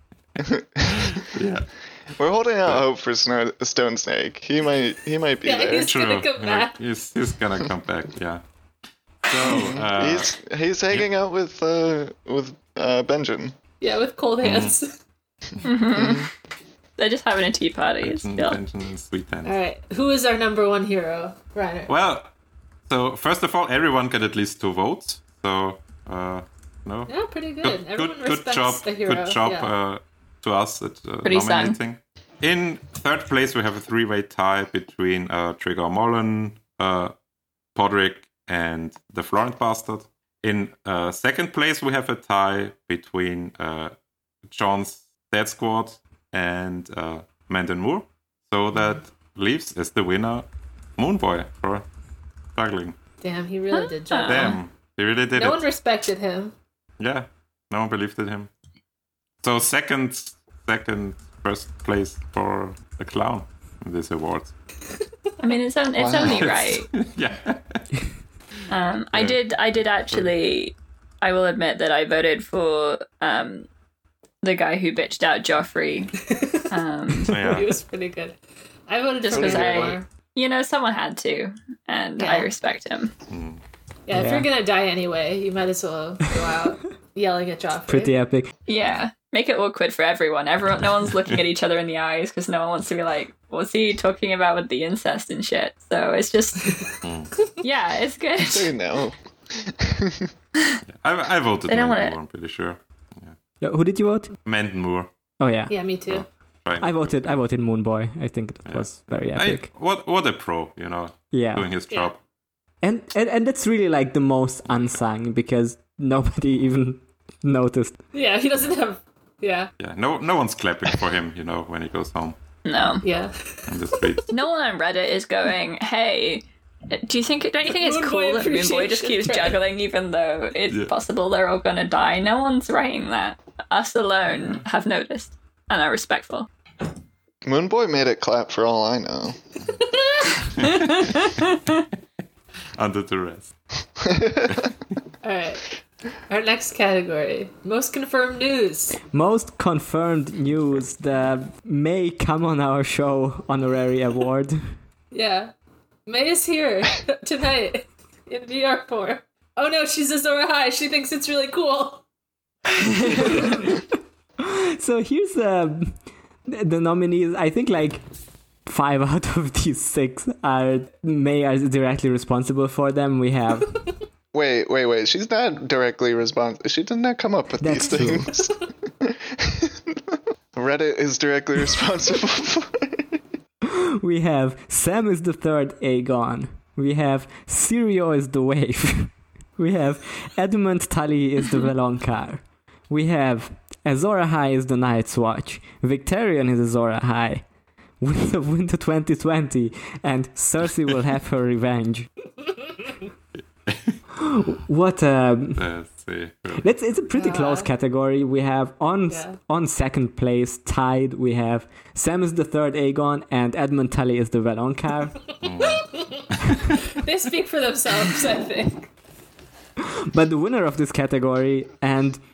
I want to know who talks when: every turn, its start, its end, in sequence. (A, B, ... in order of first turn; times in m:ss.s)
0:00.4-0:01.2 A
0:01.1-0:01.7 B
0:02.2-0:05.9 A
0:05.4-0:06.8 C
0:05.8-0:08.4 B
0:09.2-0:10.3 B
0:09.4-0:13.6 A
0:13.8-0:15.0 C
0:14.4-0:14.8 B
0:15.6-0:16.2 D
0:15.9-0:16.2 A
0:17.0-0:18.6 D
0:18.0-0:19.6 B
0:19.4-0:21.9 C
0:21.9-0:22.3 B
0:22.9-0:37.1 B
0:27.1-0:29.7 C
0:31.2-0:31.8 D
0:37.7-0:43.9 B
0:44.4-0:51.8 B
0:52.6-0:53.0 B
0:53.2-0:54.6 C
0:53.7-0:54.6 D
0:54.2-0:55.6 B
0:55.3-0:56.5 C
0:57.0-0:58.5 B
0:59.4-1:04.5 B
1:05.4-1:06.9 D
1:06.0-1:06.6 A
1:06.2-1:07.8 B
1:08.7-1:13.7 D
1:09.1-1:09.4 B
1:14.4-1:17.3 D
1:16.3-1:16.7 C
1:17.2-1:17.7 B
1:17.4-1:18.4 C
1:18.9-1:20.0 C
1:19.3-1:23.1 D
1:19.3-1:20.0 A
1:22.2-1:22.5 C
1:23.3-1:23.6 B
1:24.1-1:28.1 C
1:24.1-1:24.5 E
1:27.9-1:28.5 E
1:28.7-1:36.8 D
1:37.0-1:37.4 B
1:37.6-1:38.7 D
1:38.4-1:40.3 A
1:40.9-1:43.4 B
1:41.7-1:42.2 D
1:43.6-1:44.3 E
1:44.4-1:45.1 B
1:45.4-1:45.7 E
1:45.7-1:46.2 C
1:46.1-1:47.3 B
1:46.8-1:49.7 E
1:48.6-1:52.2 B
1:51.3-1:51.7 E
1:52.8-1:58.0 E
1:58.1-1:59.7 C
1:59.8-2:02.4 B
2:02.6-2:03.0 D
2:03.0-2:04.3 C
2:03.7-2:04.3 B
2:04.3-2:16.5 D
2:07.6-2:09.6 C
2:17.4-2:19.4 A
2:19.7-2:20.4 C
2:20.6-2:21.3 B
2:20.8-2:21.6 D
2:22.8-2:23.5 B
2:24.0-2:24.7 A
2:25.2-2:25.6 C
2:26.3-2:29.0 C
2:29.1-2:34.7 E
2:35.1-2:35.5 C
2:36.0-2:42.0 C
2:42.8-2:43.8 E
2:43.2-2:43.5 C
2:44.4-2:48.0 E
2:48.6-2:53.8 E
2:54.3-2:59.9 A
2:57.6-2:58.3 E
3:00.5-3:03.1 A
3:03.6-3:17.4 E
3:18.0-3:22.1 E
3:23.7-3:24.0 B
3:24.2-3:25.6 E
3:25.5-3:26.7 B
3:26.6-3:35.2 E
3:27.1-3:27.7 C
3:29.1-3:29.4 C
3:35.4-3:36.6 B
3:35.6-3:36.2 C
3:36.9-3:38.9 C
3:39.8-3:42.2 E